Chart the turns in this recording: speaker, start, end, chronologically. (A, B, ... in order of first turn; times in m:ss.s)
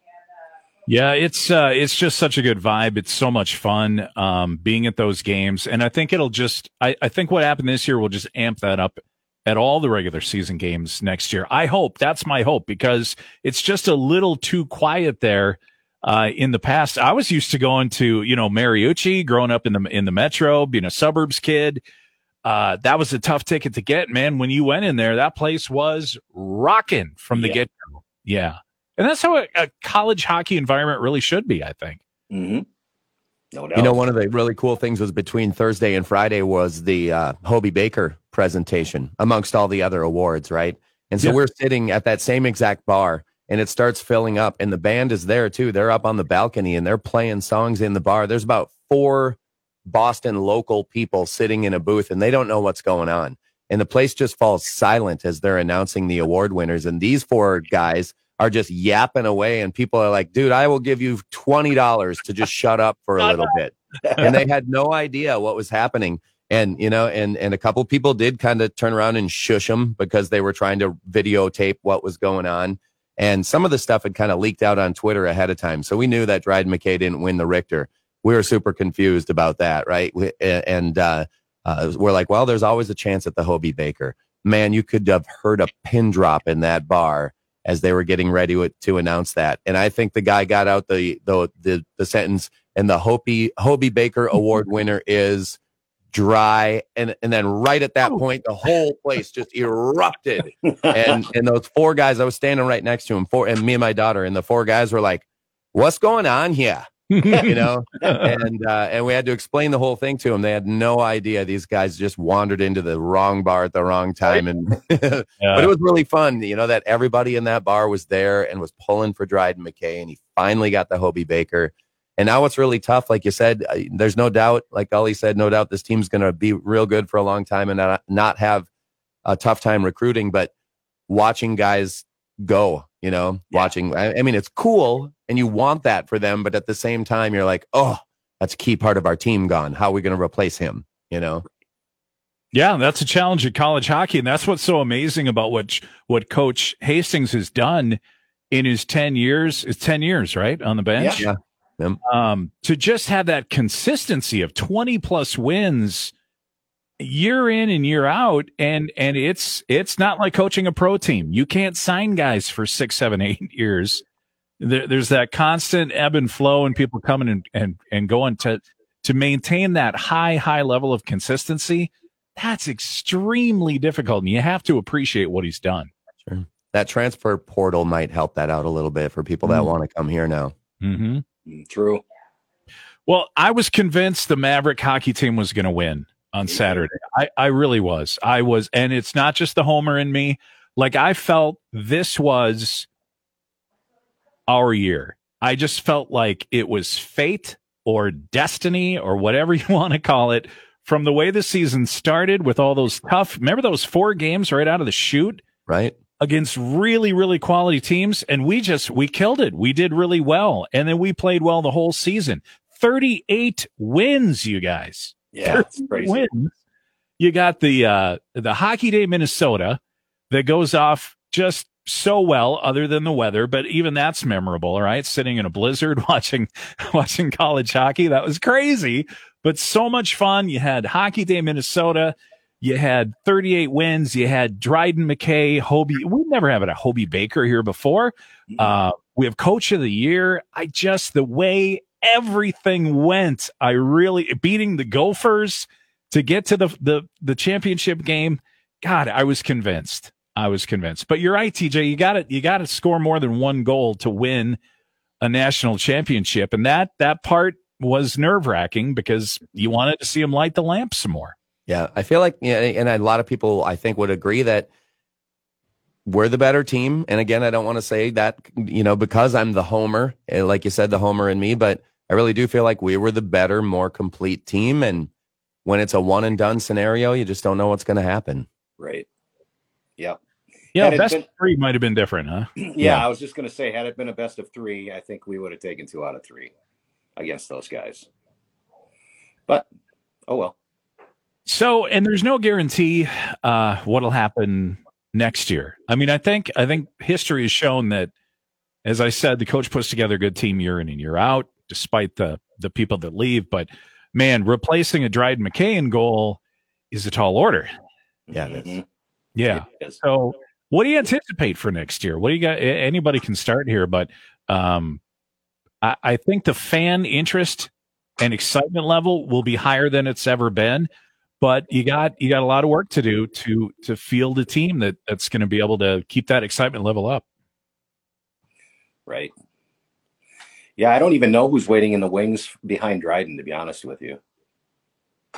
0:00.9-0:21.8 A
0:22.4-0:32.0 A
0:27.3-0:27.6 B
0:32.3-0:32.6 B
0:33.5-0:34.0 B
0:33.7-1:35.6 C
1:03.2-1:03.5 B
1:04.0-1:04.4 B
1:36.1-2:08.7 C
1:40.7-1:41.2 B
1:47.1-1:47.5 A
1:48.0-1:48.3 A
1:55.4-1:55.7 A
2:09.2-2:10.5 C
2:11.1-2:21.4 C
2:22.5-2:28.0 A
2:28.5-2:31.2 A
2:31.0-2:31.2 B
2:31.2-2:32.0 C
2:32.0-2:36.1 A
2:37.0-2:44.0 A
2:44.6-2:55.9 A
2:56.2-3:00.5 C
3:00.8-3:01.2 A
3:01.4-3:02.0 B
3:03.1-3:12.9 A
3:14.5-3:25.4 A
3:25.7-3:25.9 C
3:26.2-3:36.5 A
3:35.3-3:36.2 B
3:37.2-4:14.6 A
4:15.2-4:21.3 A
4:21.7-4:24.7 C
4:26.0-4:35.1 C
4:35.6-4:38.5 C
4:38.8-4:39.1 B
4:40.7-4:43.0 A
4:40.8-4:41.2 B
4:42.6-4:46.5 B
4:47.2-4:48.1 B
4:50.3-4:50.5 B
4:51.4-4:58.1 A
4:58.8-5:06.4 A
5:06.9-5:07.7 A
5:08.3-5:08.8 B
5:08.3-5:08.7 C
5:09.3-5:15.0 A
5:09.6-5:10.0 B
5:15.8-5:20.9 A
5:21.4-5:27.2 A
5:30.8-5:34.2 B